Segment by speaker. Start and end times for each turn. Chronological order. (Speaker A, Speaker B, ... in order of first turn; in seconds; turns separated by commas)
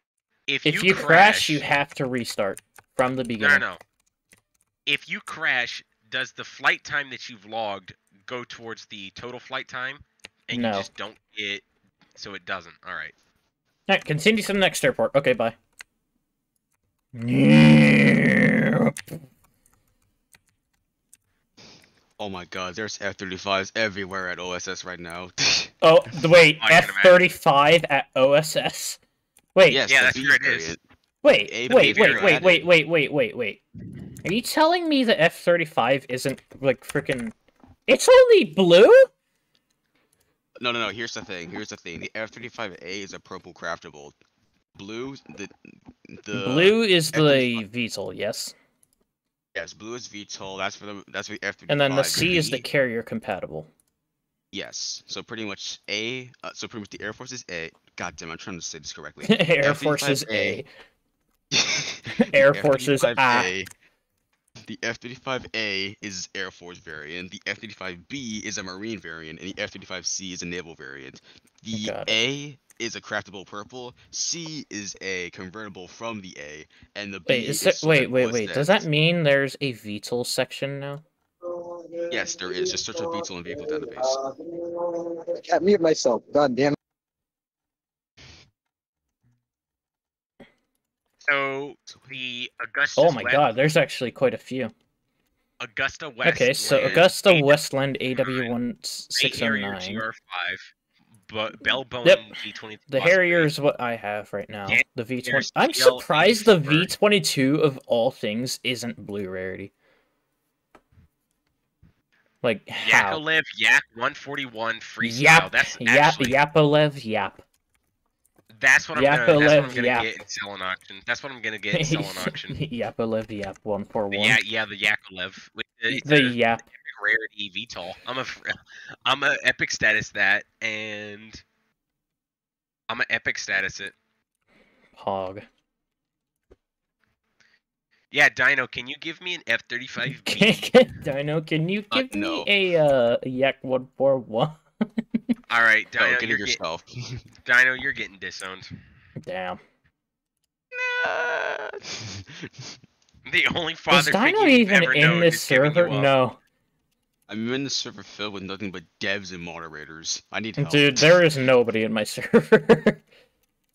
Speaker A: 0.5-1.6, Speaker B: 0.6-3.6, Speaker A: 3.4-3.8, Speaker A: 4.8-11.6, Speaker B: 10.5-10.9, Speaker A: 12.2-13.1, Speaker B: 13.9-15.6, Speaker B: 17.1-19.0, Speaker C: 22.2-25.7, Speaker B: 25.8-29.0, Speaker A: 26.6-27.2, Speaker B: 29.5-29.8, Speaker C: 29.7-30.8, Speaker A: 29.9-30.8, Speaker B: 31.2-33.6, Speaker C: 31.4-32.7, Speaker A: 31.7-32.6, Speaker B: 34.2-37.3, Speaker B: 37.9-39.1, Speaker C: 40.6-44.1, Speaker C: 44.8-47.6, Speaker B: 46.3-48.5, Speaker C: 49.5-52.6, Speaker B: 51.7-53.7, Speaker C: 54.5-60.6, Speaker B: 59.2-60.7, Speaker C: 61.5-63.7, Speaker B: 62.1-63.5, Speaker C: 64.6-78.8, Speaker B: 71.7-72.1, Speaker B: 77.3-81.0, Speaker D: 81.4-86.8, Speaker C: 82.1-84.2, Speaker A: 91.2-93.4, Speaker B: 93.0-94.7, Speaker A: 95.6-97.6, Speaker B: 96.2-100.0, Speaker C: 96.6-97.1, Speaker A: 98.1-98.5, Speaker A: 99.2-100.7, Speaker A: 101.3-103.5, Speaker B: 102.0-102.3, Speaker B: 102.9-109.7, Speaker A: 104.7-106.9, Speaker B: 112.4-113.2, Speaker A: 112.8-116.4, Speaker B: 115.0-117.4, Speaker A: 118.5-122.6, Speaker B: 118.9-120.1, Speaker B: 121.7-124.4, Speaker A: 124.1-131.4, Speaker B: 125.9-126.6, Speaker A: 132.9-133.9, Speaker B: 134.9-135.5, Speaker A: 138.1-140.9, Speaker B: 140.1-145.3, Speaker C: 141.9-142.5, Speaker A: 145.5-146.6, Speaker C: 146.0-147.2, Speaker A: 147.4-148.8, Speaker B: 149.2-149.6, Speaker C: 150.8-152.7, Speaker A: 153.3-156.1, Speaker B: 153.9-156.4, Speaker C: 157.3-161.2, Speaker B: 160.6-163.0